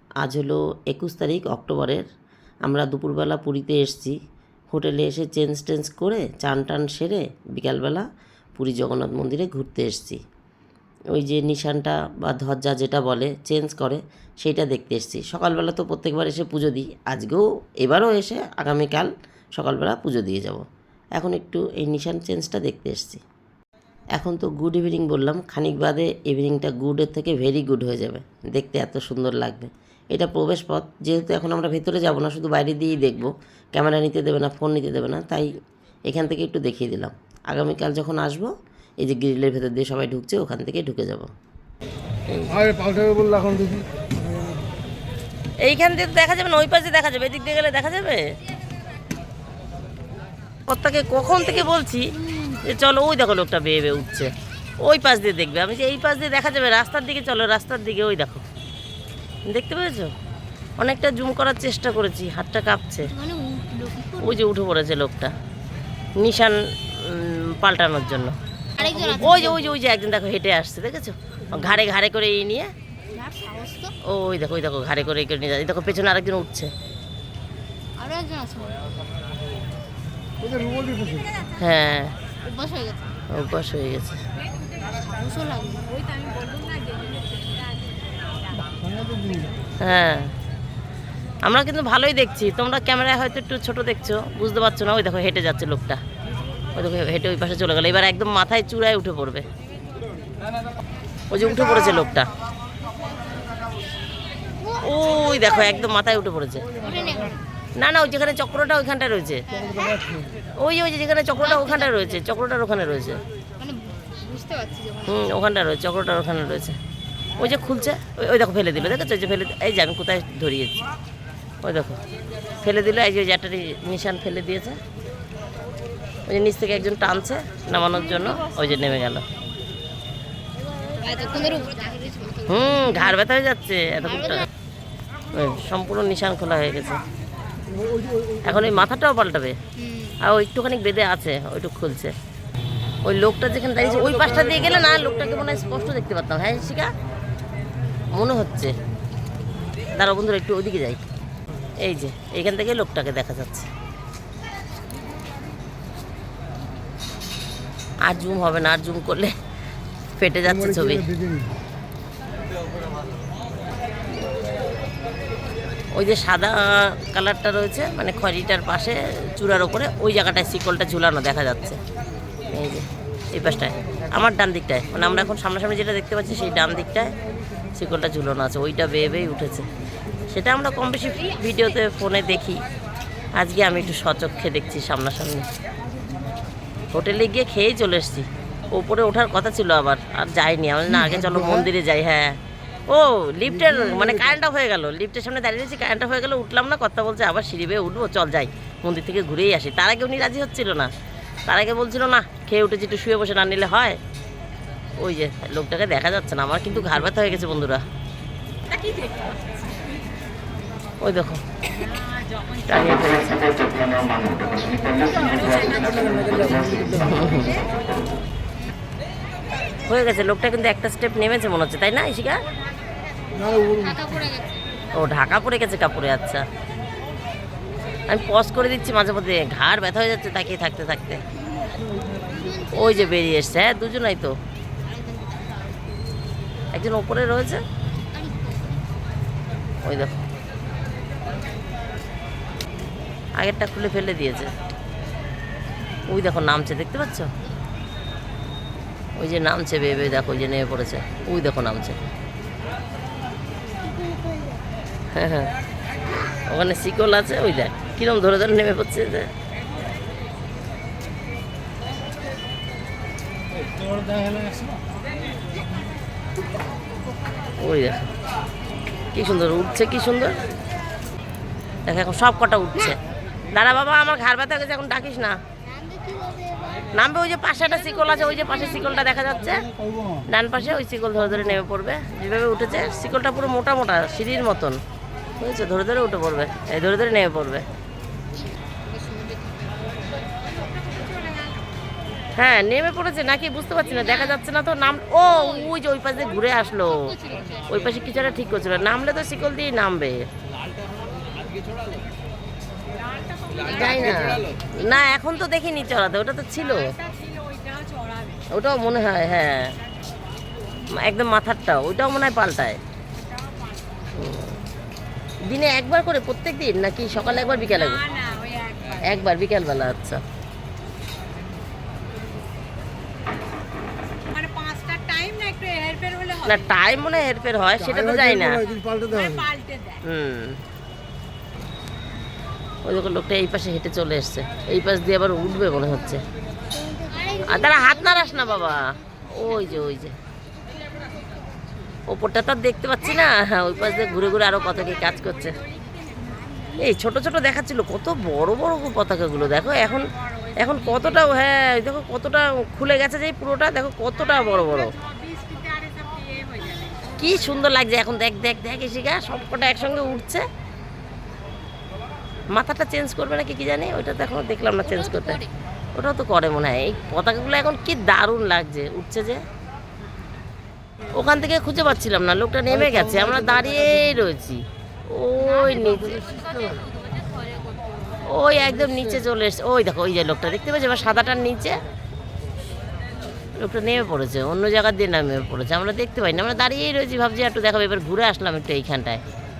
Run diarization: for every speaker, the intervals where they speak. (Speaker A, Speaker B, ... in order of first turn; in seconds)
Speaker A: 0.2-2.0, 2.7-4.1, 4.7-8.0, 8.6-10.2, 11.1-20.6, 21.1-23.2, 24.1-35.5, 36.1-41.3, 42.3-42.6, 45.6-48.3, 50.7-54.3, 54.8-58.4, 59.5-60.1, 60.8-63.1, 64.2-65.3, 66.2-68.3, 69.0-72.7, 74.0-76.7, 81.6-82.1, 83.3-84.2, 89.8-90.3, 91.4-96.0, 96.8-99.5, 101.3-102.3, 104.7-106.7, 107.8-109.5, 110.6-113.2, 115.0-116.8, 117.4-120.8, 121.6-122.0, 122.6-124.8, 126.3-129.2, 132.4-134.5, 135.3-137.0, 138.4-139.6, 140.2-142.1, 143.0-146.9, 148.1-148.7, 149.9-151.0, 151.8-153.7, 158.0-159.3, 160.2-161.1, 165.9-171.8, 172.5-177.1, 177.7-179.7, 180.3-182.6, 183.4-185.5, 186.9-192.4, 192.9-200.9, 201.5-204.0, 205.0-207.8, 211.0-211.8, 212.7-214.3, 216.9-217.6, 219.9-222.4, 224.9-226.4, 228.1-231.2, 232.7-234.3, 236.7-237.6, 239.8-240.2, 243.4-244.5, 246.1-247.3, 249.2-252.0, 255.1-255.5, 256.5-259.3, 267.6-268.0, 269.1-270.4, 271.9-273.0, 273.5-275.4, 276.9-279.6, 280.3-284.8, 285.4-287.6, 292.4-300.2, 303.6-306.9, 308.5-309.7, 310.9-312.8, 314.1-314.6, 315.5-318.0, 319.0-320.2, 326.3-328.6, 330.0-330.6, 332.8-336.2, 337.4-340.1, 342.1-345.6, 346.7-354.9, 357.2-360.4, 362.5-365.4, 365.9-369.4, 371.1-376.3, 378.2-381.8, 383.6-389.2
Speaker B: 42.5-44.6, 80.4-81.4, 88.7-89.7, 109.5-110.4, 137.7-138.6, 160.9-161.5, 191.1-191.6, 214.9-217.2, 223.4-224.0, 264.0-264.7, 279.9-280.1, 327.9-329.5, 373.1-374.0, 375.8-376.7
Speaker C: 63.1-64.5, 68.8-69.6, 73.1-73.9, 78.0-79.0, 82.4-83.2, 84.9-86.0, 104.5-105.9, 106.7-107.4, 109.5-110.0, 111.4-112.0, 113.6-115.2, 130.8-133.2, 134.0-134.4, 139.8-140.2, 223.6-224.7, 231.5-233.2, 234.8-235.8, 238.1-238.8, 253.9-254.6, 275.6-276.9, 278.3-278.9, 288.3-289.8, 296.8-298.1, 336.7-339.8, 341.0-341.4, 364.8-365.5, 376.6-377.8
Speaker D: 86.0-87.6, 208.7-209.6, 214.8-215.6, 290.8-291.6, 303.0-304.0, 307.0-308.4, 318.1-319.0, 324.3-326.4, 329.2-329.9, 345.6-346.6, 355.0-356.9